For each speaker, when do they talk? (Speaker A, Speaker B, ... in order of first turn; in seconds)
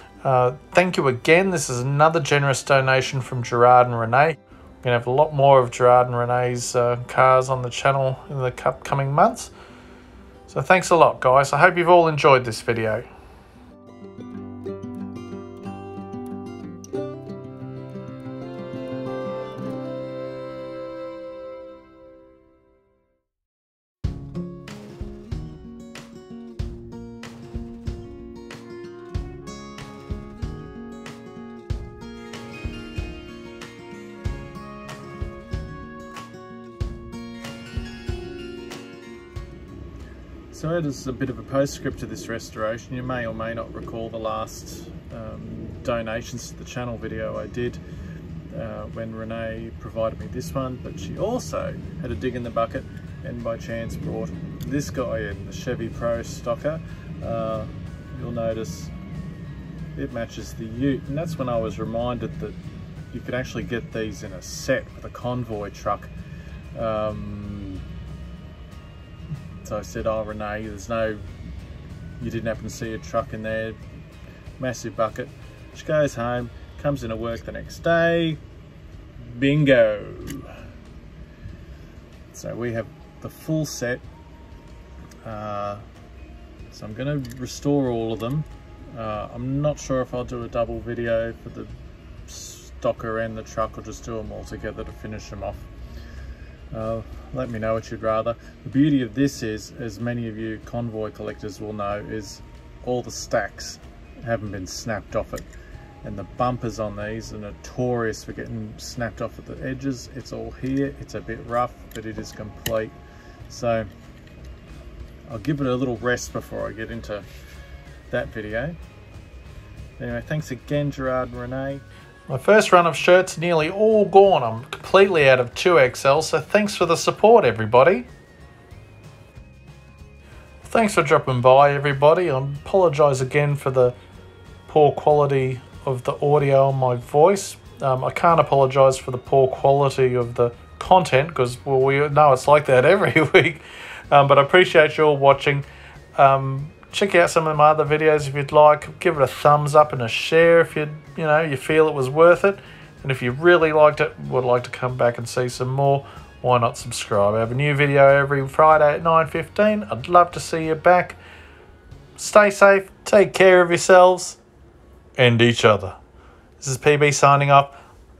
Speaker A: 0.2-9.5, 10.5-13.1, 40.5-47.8, 48.5-58.9, 60.0-62.6, 63.1-66.1, 66.7-67.8, 69.6-71.3, 72.2-73.8, 74.6-78.4, 79.2-80.5, 82.3-84.0, 85.2-85.8, 86.7-91.7, 92.3-95.7, 96.7-105.5, 106.0-113.0, 113.5-113.9, 115.3-117.3, 118.1-118.8, 120.0-128.1, 130.6-134.0, 134.7-161.2, 162.2-164.4, 165.2-166.0, 166.6-167.8